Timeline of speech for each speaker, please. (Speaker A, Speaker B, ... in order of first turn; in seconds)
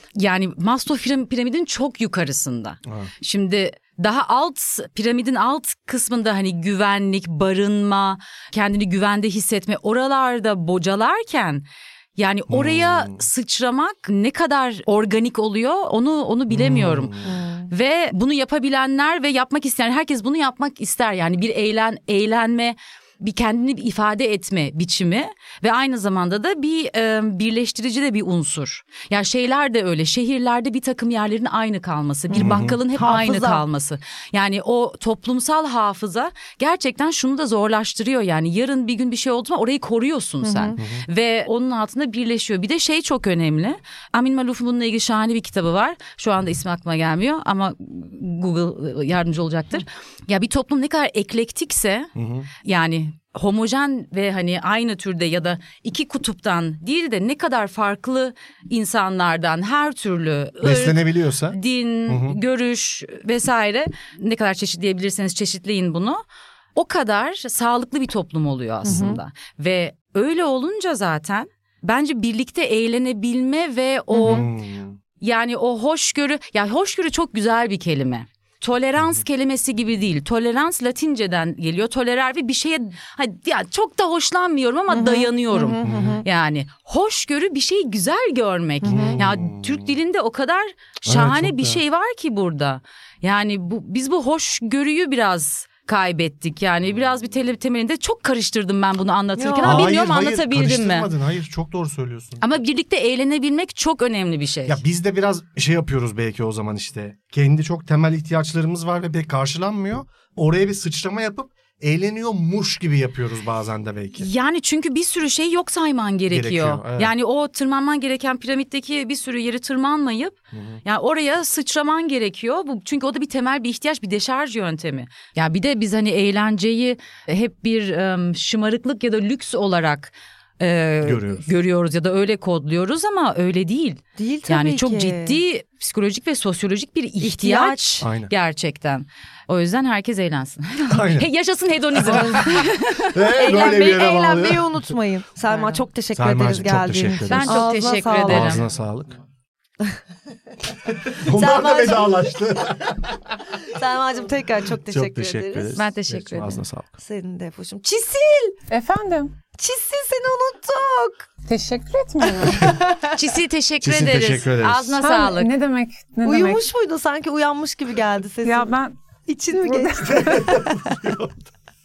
Speaker A: 0.1-17.1, 17.7-66.2, 66.7-74.5, 75.2-101.1, 102.4-104.8, 114.2-143.8, 147.3-148.6, 155.7-156.6, 163.1-165.5
Speaker B: 2.8-3.1, 12.5-13.2, 16.5-17.3, 32.4-32.8, 40.8-41.0, 52.1-52.5, 60.6-62.4, 68.9-69.1, 74.2-75.0, 85.8-86.2, 88.8-89.9, 91.0-91.8, 99.6-102.4, 104.7-114.3, 116.3-117.1, 120.5-120.8, 131.0-131.4, 138.0-138.3, 140.9-141.3, 142.1-142.6, 143.1-144.9, 146.1-147.7, 148.3-149.2, 151.1-153.4, 154.8-156.9, 163.8-165.0, 170.0-171.5
Speaker C: 17.2-17.7, 32.3-33.6, 40.4-40.8, 68.8-69.2, 74.1-74.5, 84.9-86.2, 88.8-89.2, 99.4-99.9, 134.2-135.4, 137.2-138.0, 142.0-142.6, 143.4-148.6, 151.2-152.4, 153.6-155.7, 157.0-158.6, 159.6-161.3, 162.6-163.1, 166.2-168.7, 169.3-170.9
Speaker D: 158.7-159.3, 161.4-162.8, 165.0-166.6, 168.4-168.9, 169.6-170.5